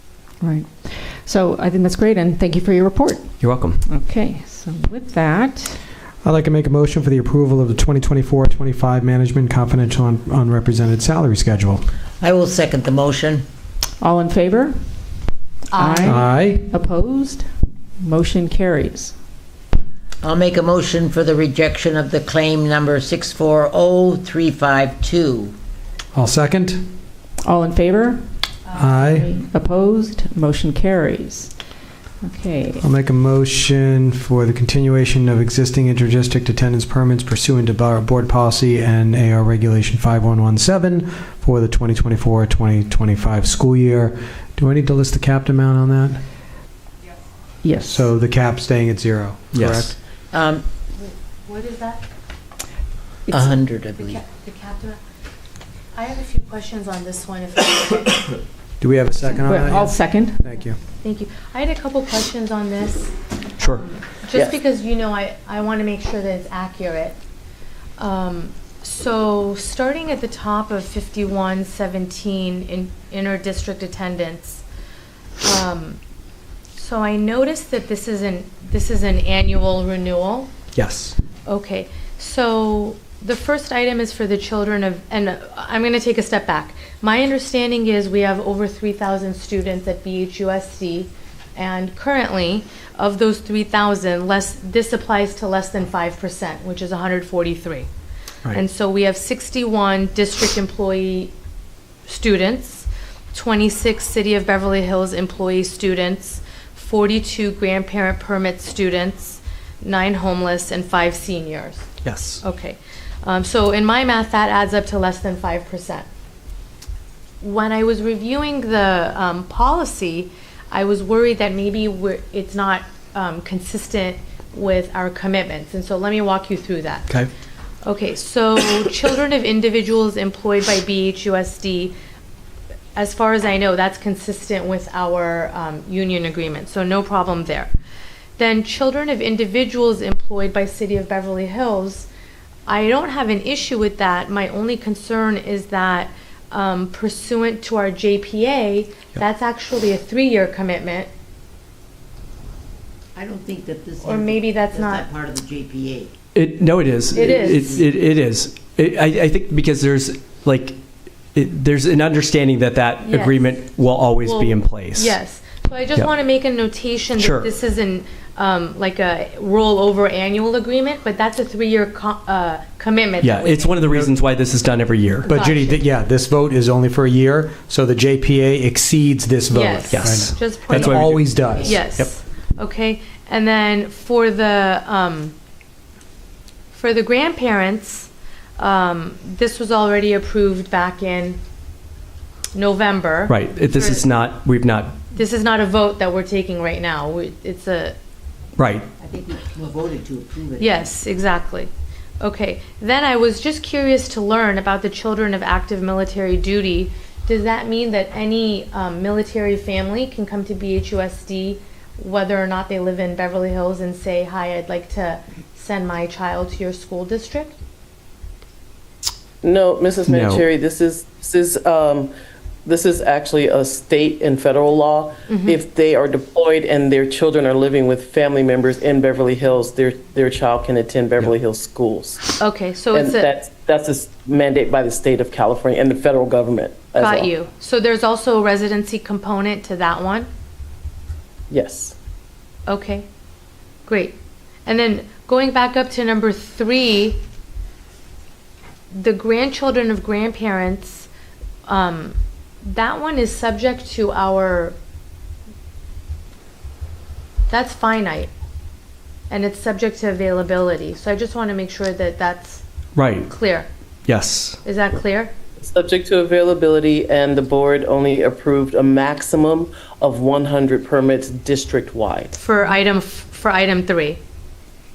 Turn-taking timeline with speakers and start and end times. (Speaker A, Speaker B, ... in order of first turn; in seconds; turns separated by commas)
Speaker A: 0.4-3.3, Speaker B: 3.4-3.8, Speaker A: 3.8-5.8, Speaker C: 6.2-11.8, Speaker D: 12.2-13.4, Speaker A: 14.0-14.8, Speaker A: 15.7-17.5, Speaker C: 16.0-16.6, Speaker A: 18.0-19.1, Speaker D: 20.2-25.5, Speaker C: 26.1-26.8, Speaker A: 27.4-31.5, Speaker C: 28.7-29.3, Speaker A: 32.2-32.8, Speaker C: 32.8-46.2, Speaker A: 47.6-48.1, Speaker C: 47.8-50.0, Speaker B: 49.5-49.9, Speaker D: 50.3-50.6, Speaker E: 51.0-52.0, Speaker D: 53.3-54.2, Speaker E: 53.9-55.0, Speaker E: 55.9-58.4, Speaker C: 58.8-60.8, Speaker A: 59.4-60.4, Speaker E: 61.0-67.2, Speaker B: 63.6-63.9, Speaker E: 68.0-74.6, Speaker E: 75.4-76.0, Speaker E: 76.7-80.5, Speaker B: 80.7-81.2, Speaker E: 81.5-97.9, Speaker E: 98.5-101.3, Speaker E: 102.0-111.9, Speaker B: 112.0-112.4, Speaker E: 112.4-116.1, Speaker E: 117.4-127.2, Speaker E: 127.8-131.9, Speaker E: 132.9-137.7, Speaker E: 138.4-142.1, Speaker E: 142.7-151.1, Speaker D: 153.2-156.1, Speaker E: 154.0-155.1, Speaker B: 156.3-160.8, Speaker E: 157.1-157.6, Speaker D: 157.2-157.8, Speaker B: 161.3-165.2, Speaker E: 163.1-163.5, Speaker E: 164.2-173.8, Speaker B: 167.2-167.5, Speaker B: 173.2-175.3, Speaker E: 175.2-175.8, Speaker C: 175.3-181.8, Speaker E: 179.5-185.3, Speaker B: 179.9-182.1, Speaker E: 186.7-191.4, Speaker E: 192.5-194.1, Speaker B: 193.3-195.1, Speaker E: 195.1-197.9, Speaker B: 198.6-198.9, Speaker D: 199.0-200.8, Speaker E: 200.6-217.6, Speaker F: 219.4-222.1, Speaker B: 220.1-220.5, Speaker F: 222.6-232.2, Speaker E: 225.3-225.6, Speaker E: 232.4-233.3, Speaker F: 232.9-237.3, Speaker E: 237.0-240.3, Speaker F: 241.5-241.9, Speaker E: 242.7-243.1, Speaker E: 243.8-247.2, Speaker E: 248.9-251.1, Speaker E: 251.7-254.8, Speaker E: 257.5-258.3, Speaker E: 259.3-262.6, Speaker B: 262.9-263.3, Speaker E: 263.2-263.7, Speaker B: 264.1-264.6, Speaker E: 264.6-265.3, Speaker F: 265.6-272.3, Speaker E: 272.3-274.2